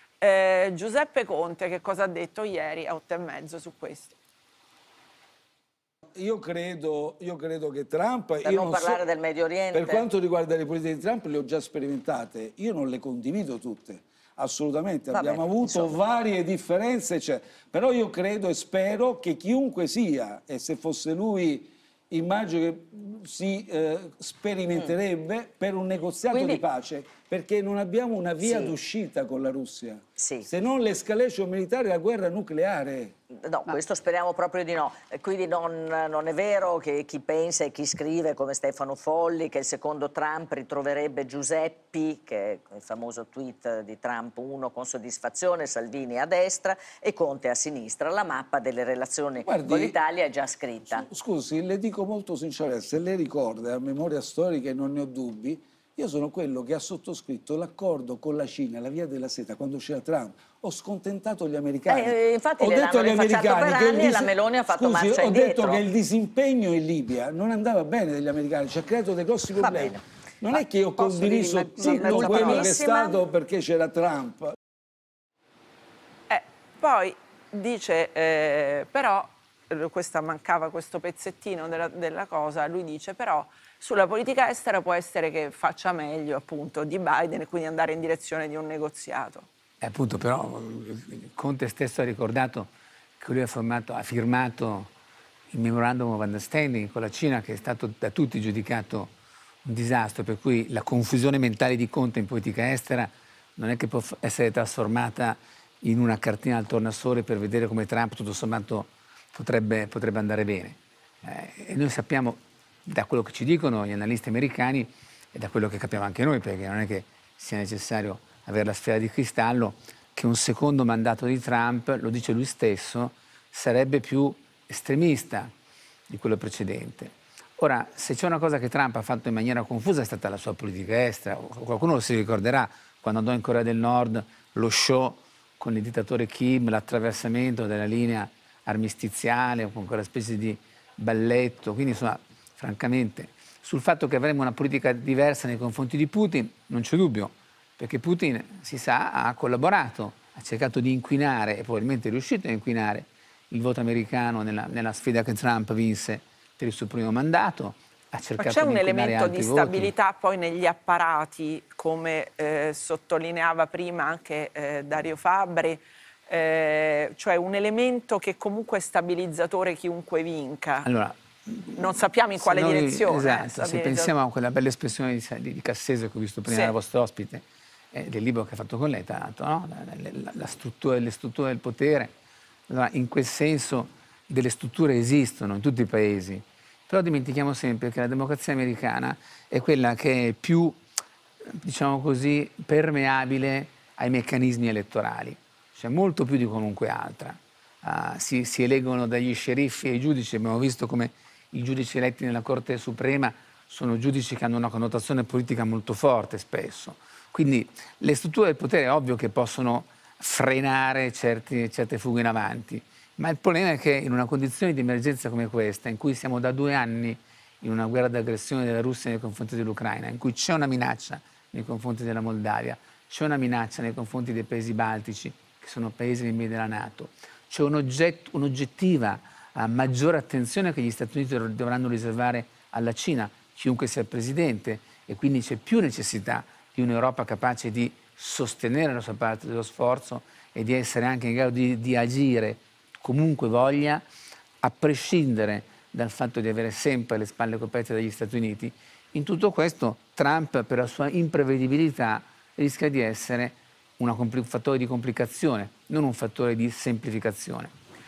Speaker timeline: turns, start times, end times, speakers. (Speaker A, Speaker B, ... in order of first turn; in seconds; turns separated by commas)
Speaker A: 0.2-4.2, Speaker B: 6.2-9.1, Speaker C: 8.4-10.1, Speaker B: 9.7-33.2, Speaker C: 15.1-15.9, Speaker C: 26.3-26.6, Speaker C: 28.4-28.7, Speaker C: 30.2-30.5, Speaker C: 33.4-51.0, Speaker B: 49.4-50.0, Speaker B: 50.8-74.5, Speaker C: 61.9-65.8, Speaker C: 69.6-73.2, Speaker D: 71.8-72.5, Speaker A: 76.3-89.5, Speaker D: 89.8-94.9, Speaker D: 95.5-99.1, Speaker D: 99.6-125.5, Speaker D: 126.1-159.9, Speaker A: 158.4-170.9, Speaker D: 170.8-182.1, Speaker A: 171.8-174.1, Speaker A: 176.5-176.8, Speaker D: 182.7-190.8, Speaker D: 191.4-244.0, Speaker D: 244.6-257.7